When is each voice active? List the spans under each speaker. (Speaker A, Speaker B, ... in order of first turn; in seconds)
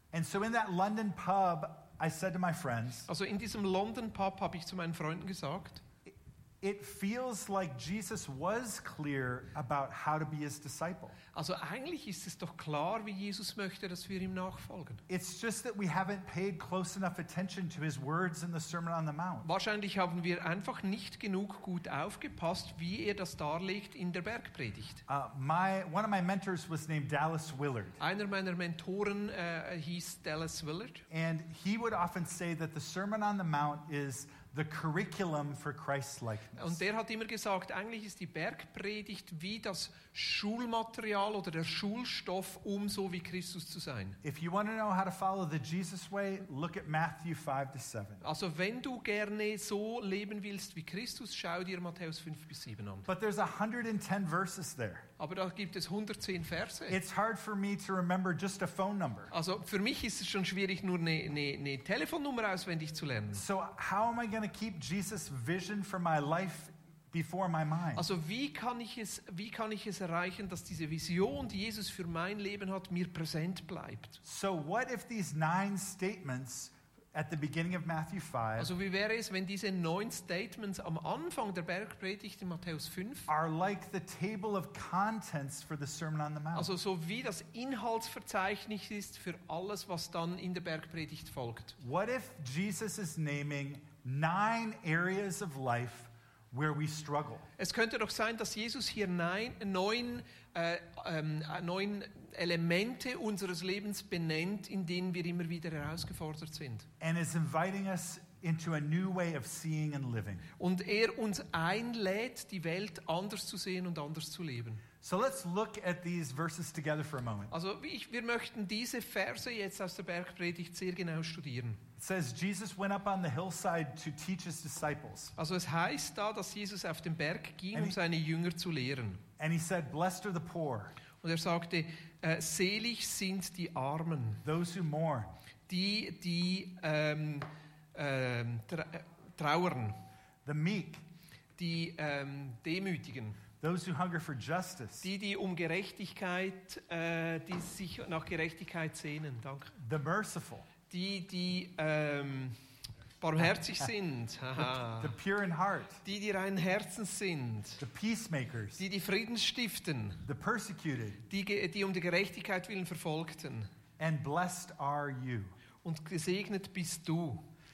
Speaker A: 0.1-3.1, 6.1-11.2, 15.1-19.5, 25.1-28.0, 31.1-36.8, 44.2-48.2, 53.1-55.1, 56.9-59.3, 63.3-68.1, 74.2-78.7, 83.3-86.7, 91.8-97.5, 107.0-110.5, 115.0-117.5, 122.0-125.3, 129.4-131.0, 134.4-135.3, 140.4-141.0, 143.6-145.1, 149.8-150.7, 154.8-156.0, 157.8-158.8, 160.2-161.2, 164.0-165.5
Speaker B: 3.1-5.8, 11.3-15.0, 19.4-25.0, 28.0-31.1, 36.6-44.2, 48.2-53.1, 55.2-57.0, 59.3-63.4, 68.0-74.2, 78.6-83.3, 86.5-91.8, 97.6-106.9, 110.6-114.8, 117.5-121.8, 125.4-129.2, 131.2-134.4, 135.7-140.0, 141.6-143.4, 145.0-149.8, 150.9-152.6, 153.2-155.2, 156.0-157.8, 158.8-160.2, 161.3-163.7, 165.8-167.5